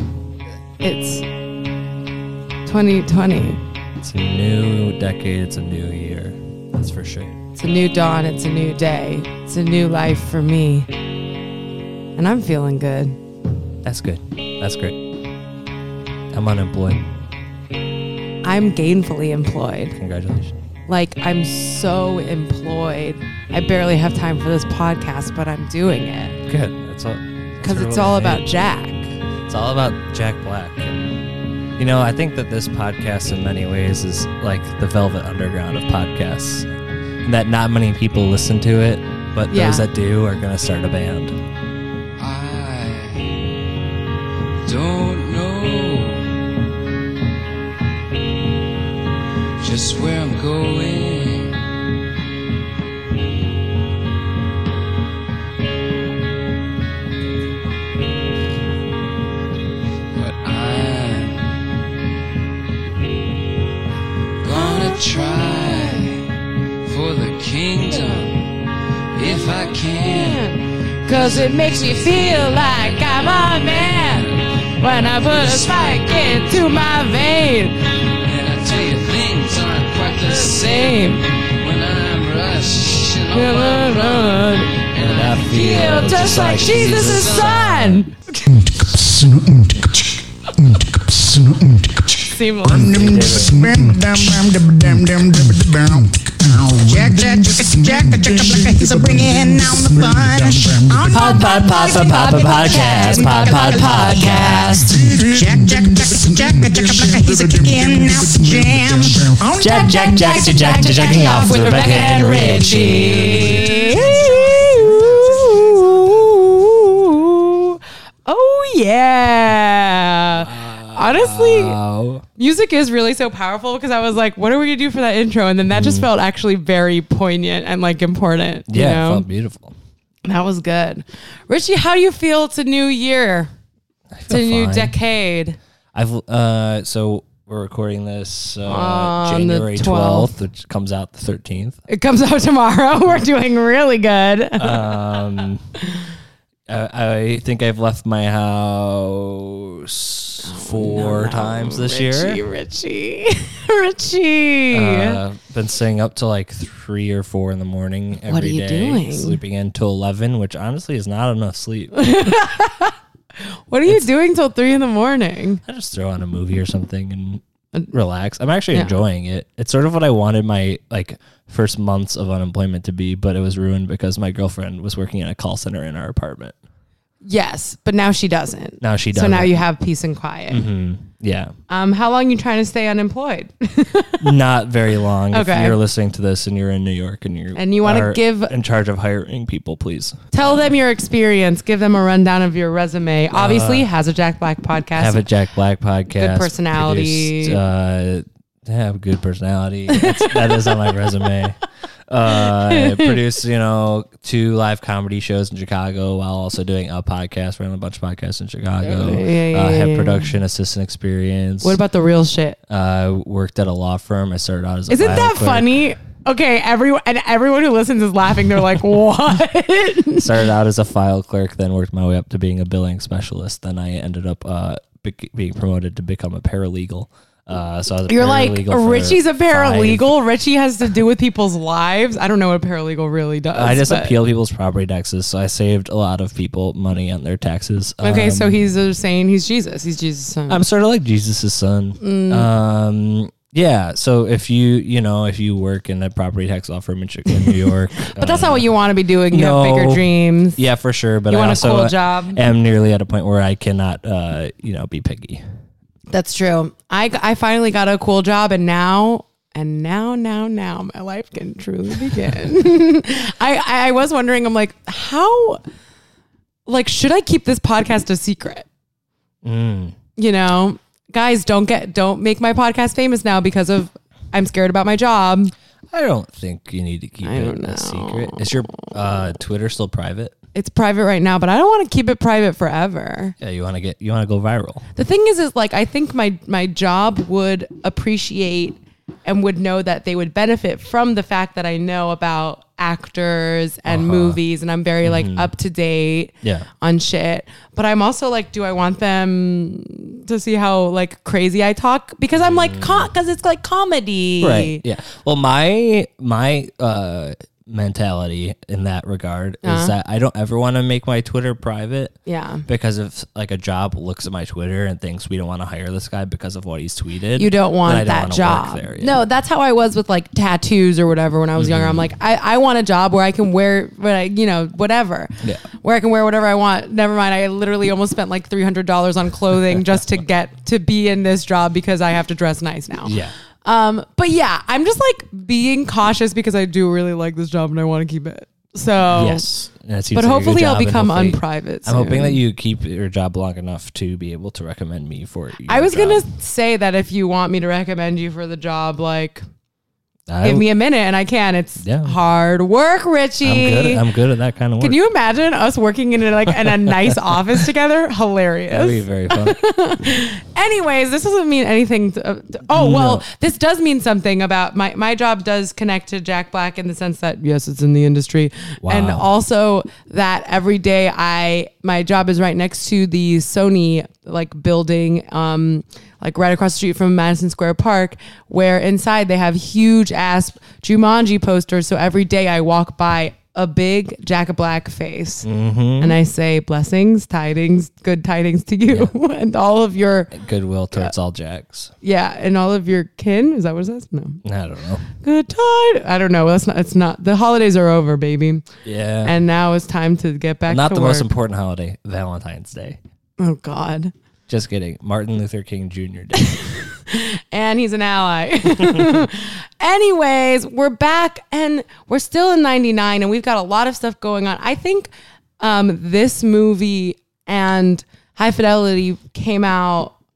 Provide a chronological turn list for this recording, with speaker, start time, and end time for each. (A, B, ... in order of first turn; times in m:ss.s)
0:00.8-0:01.2 A
0:02.6-0:03.6 A
0:04.0-0:07.4 B
0:07.6-0:10.9 A
0:12.2-0:13.2 A
0:13.8-0:15.0 B
0:16.3-0:17.1 B
0:18.4-0:20.0 A
0:20.0-0:20.6 B
0:20.9-0:26.4 A
0:26.5-0:28.5 B
0:27.6-0:29.1 A
0:29.4-0:31.2 B
0:31.8-0:36.7 B
0:37.2-0:41.4 B
0:39.5-0:39.9 A
0:42.2-0:43.5 C
0:44.6-0:46.5 C
0:49.6-0:51.6 C
1:00.1-1:01.7 C
1:04.4-1:06.3 C
1:04.5-1:06.0 A
1:06.8-1:08.5 C
1:07.9-1:08.3 A
1:09.1-1:10.4 C
1:09.2-1:17.8 A
1:11.0-1:16.5 C
1:18.2-1:27.7 C
1:20.2-1:21.2 A
1:23.3-1:24.7 A
1:25.0-1:28.1 B
1:25.5-1:28.4 A
1:28.4-1:51.3 D
1:32.3-1:32.9 A
1:32.9-1:33.6 B
1:41.1-1:45.0 B
1:42.6-1:43.3 A
1:49.6-1:54.3 B
1:50.4-2:01.8 A
1:53.0-1:53.4 C
2:00.3-2:02.2 B
2:02.4-2:09.2 A
2:05.7-2:06.1 B
2:08.7-2:09.8 B
2:10.2-2:13.5 A
2:14.1-2:14.9 B
2:14.3-2:15.6 A
2:15.9-2:21.8 B
2:18.6-2:20.3 A
2:21.9-2:25.0 A
2:24.6-2:25.6 B
2:26.7-2:32.4 B
2:30.4-2:35.2 A
2:34.7-2:42.3 B
2:38.2-2:39.4 A
2:41.9-2:43.0 A
2:43.7-2:45.6 A
2:45.6-2:56.6 B
2:57.2-3:00.6 A
2:58.8-2:59.6 B
3:00.5-3:01.5 B
3:01.7-3:04.3 A
3:04.2-3:10.5 B
3:05.3-3:05.8 A
3:07.5-3:08.5 A
3:10.3-3:15.2 A
3:13.3-3:13.9 B
3:15.0-3:31.8 B
3:16.2-3:17.6 A
3:19.9-3:20.9 A
3:22.3-3:23.2 A
3:28.8-3:30.3 A
3:31.6-3:32.6 A
3:32.7-3:35.8 B
3:34.9-3:40.3 A
3:40.2-3:50.1 B
3:48.1-3:54.2 A
3:53.5-3:58.6 B
3:58.0-4:00.6 A
4:00.5-4:08.7 B
4:02.0-4:02.5 A
4:07.3-4:10.6 A
4:09.3-4:15.4 B
4:11.3-4:12.4 A
4:16.1-4:25.6 A
4:26.7-4:28.6 A
4:29.4-4:30.0 B
4:30.2-4:35.5 A
4:35.9-4:40.4 B
4:37.2-4:38.9 A
4:40.5-4:43.3 A
4:43.4-4:44.9 B
4:45.0-5:04.8 A
4:53.8-4:54.4 B
4:55.0-4:55.5 B
5:02.4-5:03.1 B
5:04.4-5:19.2 B
5:09.6-5:09.9 A
5:12.2-5:12.6 A
5:17.4-5:39.5 A
5:21.6-5:22.1 B
5:33.0-5:33.3 B
5:39.1-5:46.3 B
5:40.1-5:42.4 A
5:45.7-5:49.4 A
5:50.3-5:50.7 B
5:50.4-5:54.0 A
5:51.8-5:52.1 B
5:53.4-5:55.0 B
5:54.8-6:25.5 A
5:58.7-5:59.6 B
6:02.7-6:03.2 B
6:08.8-6:09.3 B
6:25.4-6:26.2 B
6:26.0-6:30.3 A
6:30.3-6:31.9 B
6:32.0-6:34.4 A
6:34.4-6:35.1 B
6:35.2-6:38.6 A
6:38.8-6:39.4 B
6:39.2-6:41.3 A
6:40.7-6:43.0 B
6:43.4-6:44.1 A
6:44.5-6:46.5 B
6:46.4-7:00.1 A
6:48.8-6:49.2 B